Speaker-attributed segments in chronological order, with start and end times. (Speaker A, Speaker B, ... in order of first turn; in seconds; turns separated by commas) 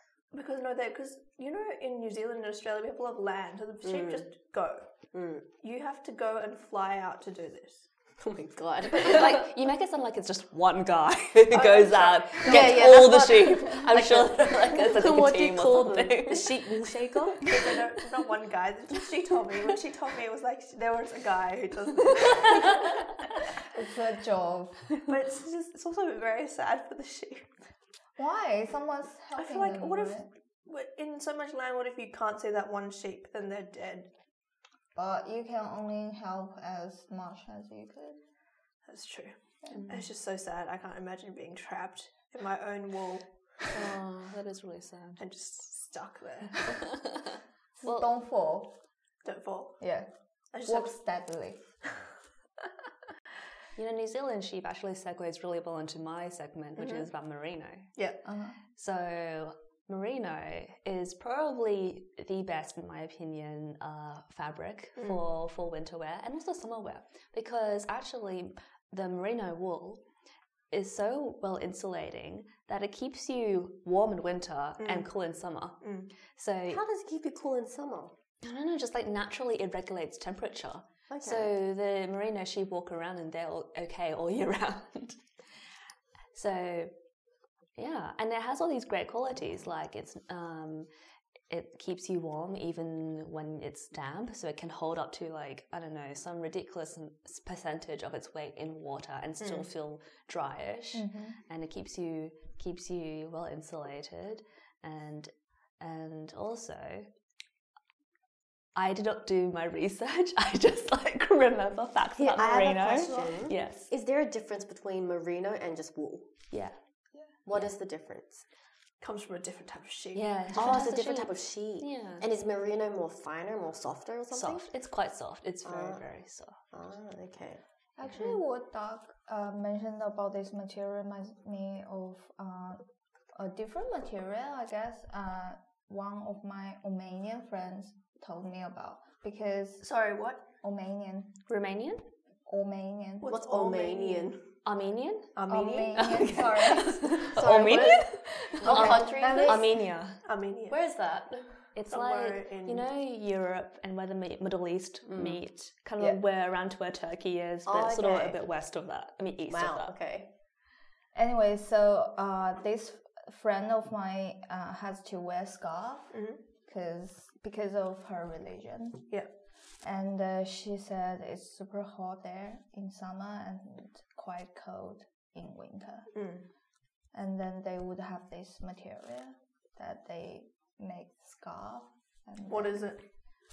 Speaker A: 0.3-4.9, Speaker B: 3.8-4.3, Speaker B: 5.1-5.5, Speaker A: 5.6-7.9, Speaker B: 8.2-9.4, Speaker C: 9.0-16.8, Speaker A: 11.5-13.1, Speaker B: 12.4-17.5, Speaker A: 17.5-23.0, Speaker D: 23.7-25.0, Speaker A: 25.1-27.5, Speaker D: 28.2-30.3, Speaker A: 29.4-34.1, Speaker D: 35.0-38.2, Speaker A: 38.9-43.3, Speaker D: 39.6-39.9, Speaker C: 39.7-40.0, Speaker C: 43.7-45.2, Speaker A: 45.2-46.8, Speaker C: 46.6-47.2, Speaker D: 47.8-48.7, Speaker C: 47.8-48.1, Speaker A: 49.2-49.8, Speaker D: 49.8-50.1, Speaker A: 50.5-51.0, Speaker D: 50.6-51.6, Speaker C: 53.8-57.9, Speaker A: 56.8-57.1, Speaker A: 58.0-58.2, Speaker D: 58.2-58.6, Speaker C: 58.7-70.0, Speaker A: 65.0-65.2, Speaker C: 70.7-76.8, Speaker A: 74.8-75.1, Speaker A: 75.8-76.1, Speaker B: 76.7-78.2, Speaker C: 78.4-85.3, Speaker B: 81.1-81.5, Speaker C: 86.3-86.9, Speaker C: 87.8-90.9, Speaker C: 91.5-107.1, Speaker A: 99.4-99.7, Speaker D: 100.9-101.4, Speaker C: 108.8-113.9, Speaker B: 112.2-116.3, Speaker C: 116.5-116.8, Speaker B: 117.5-118.5, Speaker A: 119.0-120.3, Speaker C: 120.2-122.3, Speaker B: 120.5-124.7, Speaker C: 124.3-126.6, Speaker B: 125.6-126.1, Speaker B: 126.7-127.6, Speaker D: 128.0-139.9, Speaker A: 139.8-140.4, Speaker D: 140.6-141.4, Speaker C: 141.5-142.1, Speaker D: 142.5-143.4, Speaker A: 143.2-144.4, Speaker B: 143.2-144.4, Speaker C: 144.7-145.4, Speaker A: 145.3-146.4, Speaker D: 145.5-147.3, Speaker C: 145.9-150.2, Speaker B: 147.2-149.8, Speaker D: 148.6-149.7, Speaker A: 150.2-150.8, Speaker B: 150.7-151.7, Speaker C: 151.8-159.9, Speaker A: 151.9-152.8, Speaker B: 155.1-155.4, Speaker B: 157.7-158.4, Speaker B: 159.5-160.3, Speaker D: 161.1-169.1, Speaker A: 166.1-166.4, Speaker D: 169.8-176.2, Speaker A: 176.1-176.5, Speaker D: 177.1-183.0, Speaker A: 182.5-183.0